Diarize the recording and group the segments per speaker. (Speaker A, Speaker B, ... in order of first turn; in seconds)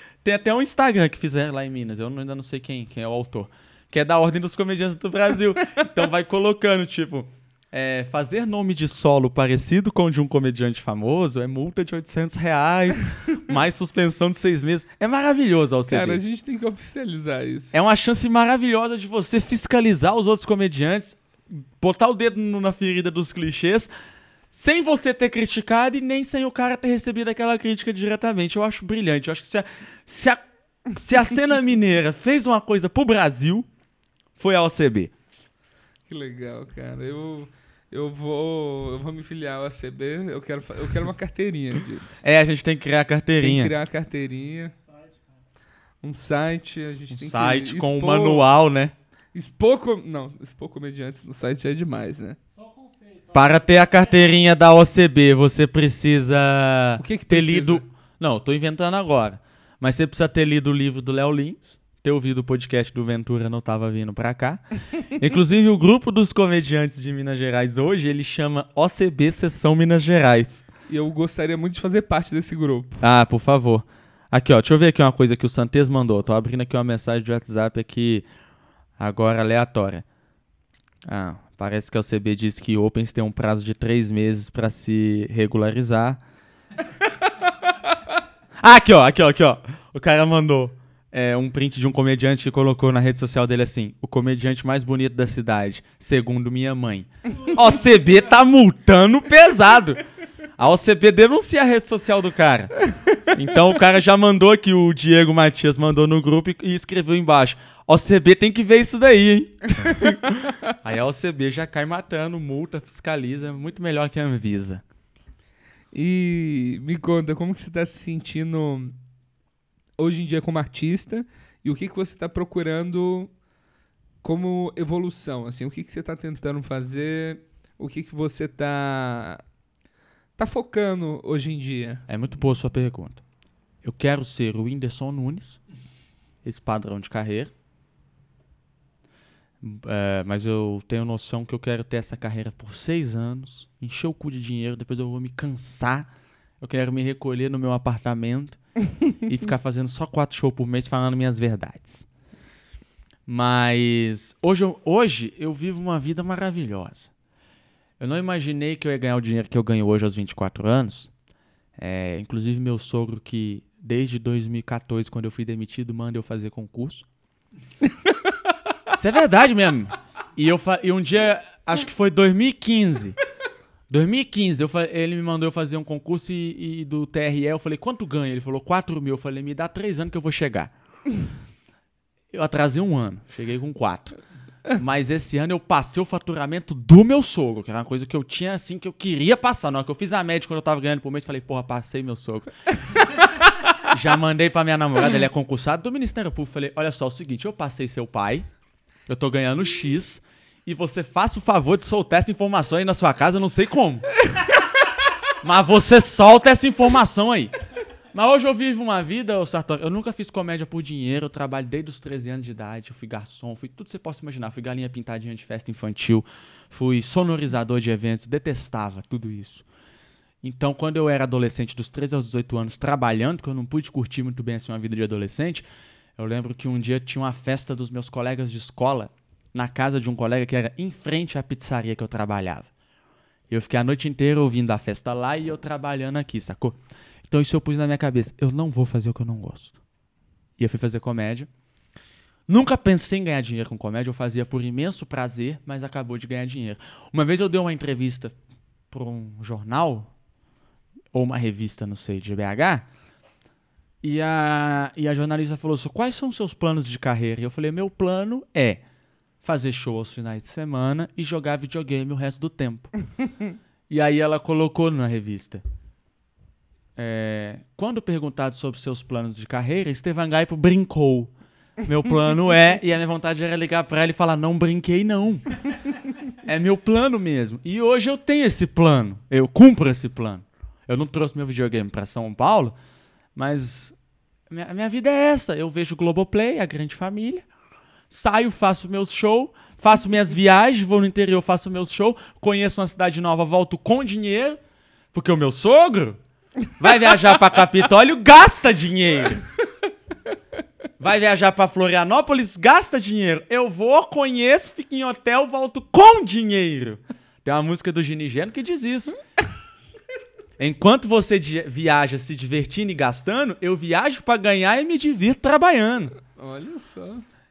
Speaker A: 0.2-16.2, 17.7-23.9, 24.5-30.4, 30.9-33.7, 34.4-35.1, 42.2-43.7, 47.1-48.9, 53.3-70.6, 73.0-78.3, 79.0-80.0, 81.1-86.2, 88.6-100.0, 100.6-114.8, 132.1-133.2, 133.8-135.6, 136.4-137.5, 139.6-148.6, 149.2-152.1, 153.3-157.1, 158.0-161.1, 161.8-167.1, 168.9-173.2, 173.9-180.7, 182.3-184.2, 184.7-193.1, 193.8-198.4, 199.1-204.1, 205.4-207.5, 208.1-219.6, 220.4-225.6, 226.2-232.7, 233.5-236.8, 237.3-239.8, 240.6-241.5, 242.5-248.3, 248.9-250.1, 251.1-252.8, 254.0-258.8, 259.4-262.9, 263.9-265.6, 266.9-271.3, 271.8-275.6, 276.4-282.7, 283.4-283.9, 284.5-287.4, 288.1-294.6, 295.1-296.2, 296.8-299.4, 301.0-309.2, 310.6-316.1
Speaker B: 15.9-17.7, 36.1-42.2, 43.4-44.7, 46.0-48.5, 49.3-52.4, 57.0-57.8, 70.9-73.0, 115.9-118.9, 120.0-123.3, 124.2-129.4, 130.4-132.0, 316.3-317.2
Speaker C: 44.7-45.4, 52.5-54.5